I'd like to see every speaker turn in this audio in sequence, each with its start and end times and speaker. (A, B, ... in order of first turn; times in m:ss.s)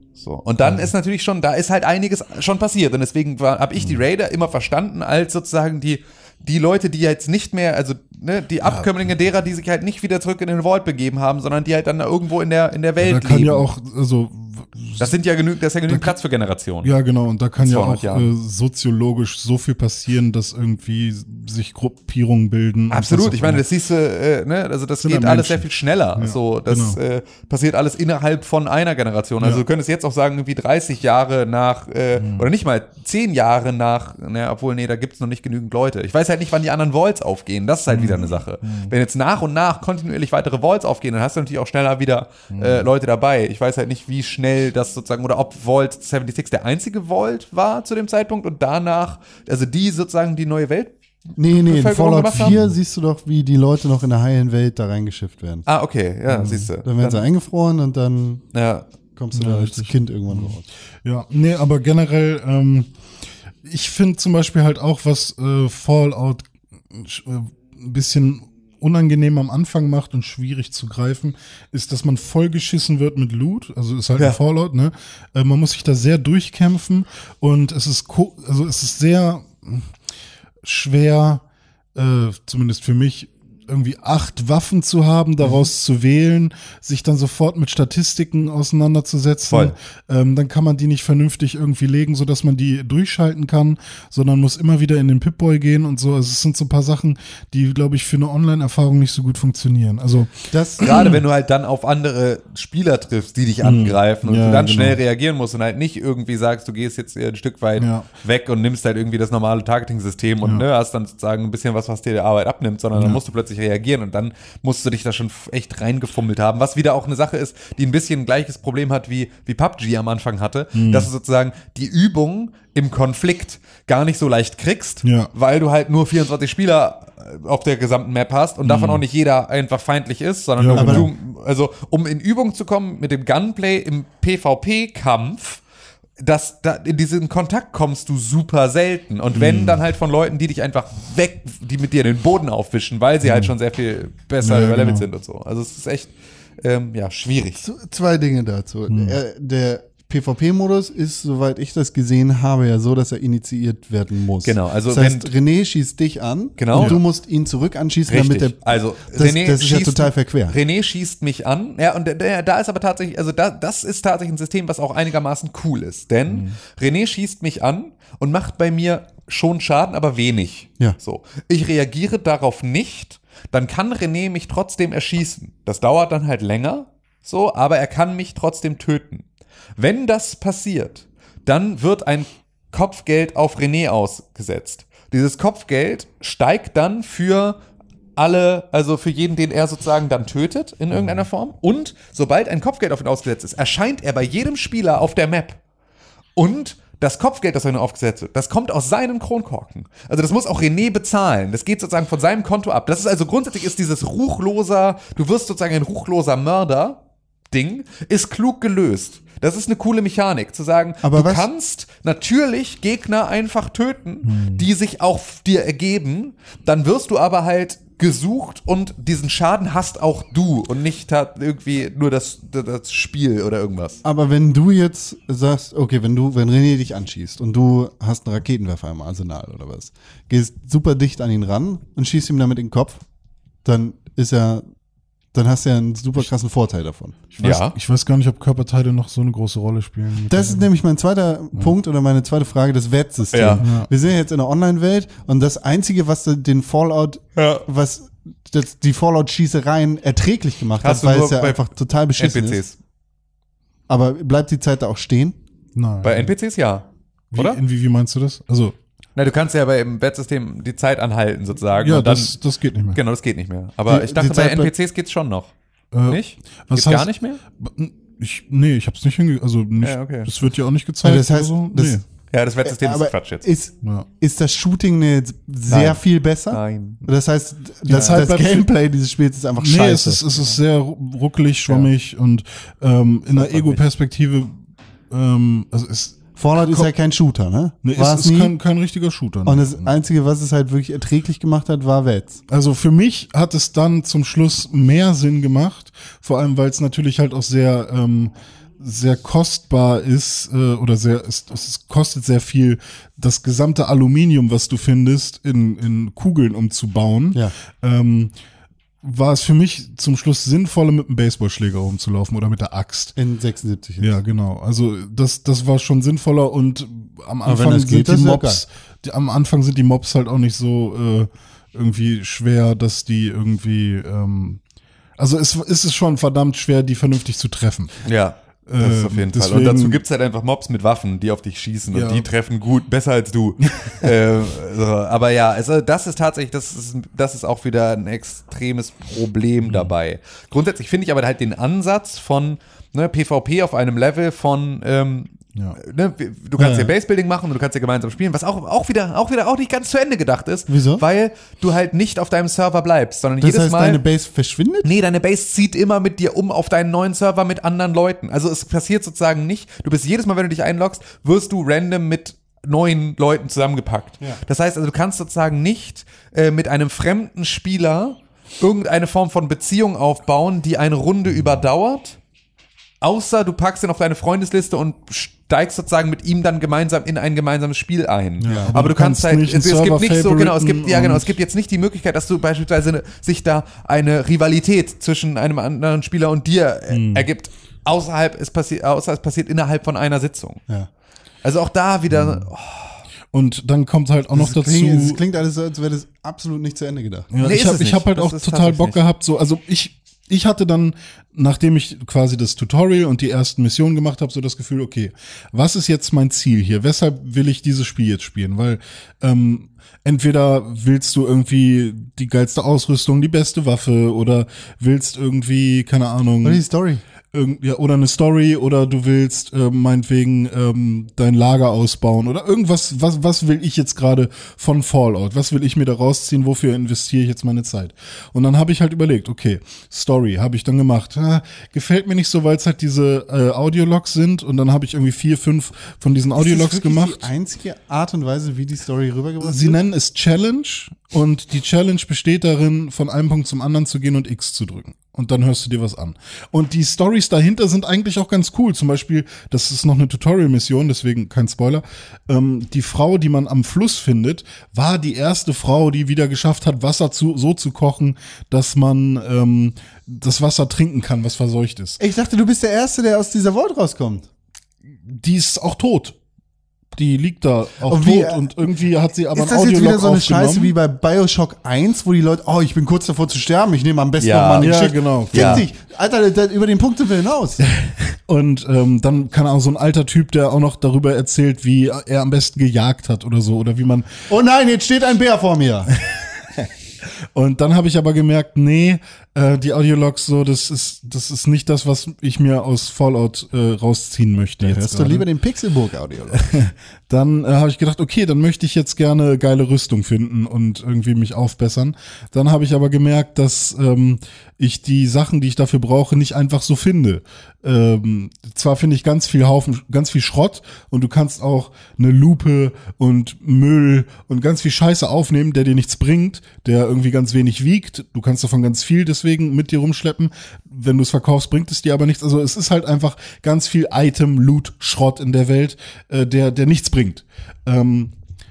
0:00.2-0:13.7 A
0:00.6-0:00.9 B
0:08.6-0:08.9 B
0:13.0-0:15.1 B
0:15.0-0:16.9 A
0:15.9-0:16.1 B
0:16.8-0:23.6 B
0:17.6-0:18.3 A
0:22.9-0:50.9 A
0:25.0-0:27.0 B
0:32.2-0:32.5 B
0:37.9-0:38.9 B
0:42.5-0:42.9 B
0:51.4-0:55.6 C
0:51.5-0:52.6 A
0:52.3-0:52.7 B
0:55.7-0:57.2 A
0:56.3-0:56.7 B
0:56.8-0:58.4 C
0:58.5-0:58.8 A
0:59.2-1:00.6 C
0:59.3-1:02.9 B
1:03.6-1:19.9 B
1:20.6-1:21.4 B
1:21.9-1:41.2 B
1:40.5-1:40.9 C
1:40.8-2:15.6 A
1:43.6-1:45.0 B
1:47.8-1:48.1 B
1:52.9-1:53.2 B
2:00.7-2:01.1 B
2:05.0-2:05.3 B
2:08.6-2:09.0 B
2:10.6-2:11.1 B
2:10.7-2:11.1 C
2:16.2-2:27.6 A
2:19.3-2:19.8 B
2:23.2-2:23.5 B
2:24.4-2:25.0 B
2:27.6-2:40.6 C
2:28.9-2:29.2 B
2:34.4-2:35.3 A
2:36.6-2:37.0 A
2:38.1-2:59.2 A
2:46.3-2:46.6 B
2:59.8-3:07.6 A
3:08.2-3:15.6 A
3:10.9-3:11.2 B
3:16.4-3:27.0 A
3:27.5-3:44.0 A
3:31.0-3:31.4 C
3:34.2-3:34.6 B
3:44.0-3:53.0 C
3:53.6-3:54.6 C
3:55.3-3:57.2 C
3:57.3-4:00.7 B
3:57.4-3:57.7 A
4:00.3-4:12.6 C
4:03.3-4:03.6 A
4:03.6-4:03.9 B
4:07.4-4:07.6 A
4:10.8-4:11.6 A
4:12.2-4:12.8 A
4:13.9-4:15.4 C
4:15.7-4:16.3 B
4:16.0-4:17.6 A
4:17.3-4:18.8 B
4:19.2-4:22.4 A
4:21.8-4:23.0 B
4:22.9-4:25.5 A
4:23.9-4:24.7 C
4:25.9-4:32.0 B
4:26.0-4:27.4 A
4:29.8-4:30.3 A
4:31.0-4:32.0 C
4:32.3-4:33.4 A
4:32.6-4:40.3 C
4:35.7-4:37.0 A
4:37.8-4:38.7 B
4:39.6-4:44.6 B
4:43.3-4:43.8 A
4:45.1-4:46.9 B
4:46.4-4:48.5 C
4:47.8-4:49.9 B
4:49.4-4:52.4 C
4:52.5-5:08.3 B
5:09.0-5:13.1 B
5:13.2-5:14.1 C
5:14.0-5:24.6 B
5:17.4-5:18.6 C
5:25.2-5:28.0 B
5:28.0-5:54.0 A
5:28.7-5:30.0 B
5:31.9-5:32.3 B
5:33.6-5:34.1 B
5:39.6-5:39.9 B
5:46.6-5:46.9 B
5:50.7-5:51.0 C
5:53.4-5:54.9 C
5:54.8-6:12.2 A
6:13.0-6:30.6 A
6:18.4-6:21.4 B
6:18.5-6:18.7 C
6:26.9-6:27.3 B
6:31.4-6:33.0 A
6:32.1-6:32.5 B
6:33.3-6:35.2 B
6:34.3-6:37.3 C
6:37.3-6:56.6 B
6:37.4-6:39.0 A
6:56.4-6:57.0 C
6:57.3-7:17.3 B
7:16.4-7:19.8 C
7:19.4-7:42.0 B
7:42.0-7:44.2 C
7:44.9-7:46.2 B
7:46.9-7:50.7 B
7:47.8-7:48.7 C
7:49.3-7:57.6 C
7:54.2-7:54.7 A
7:54.6-7:55.6 B
7:55.3-7:55.6 A
7:57.6-8:04.1 B
8:04.3-8:05.9 C
8:05.9-8:15.3 B
8:14.6-8:16.5 C
8:16.3-8:48.1 B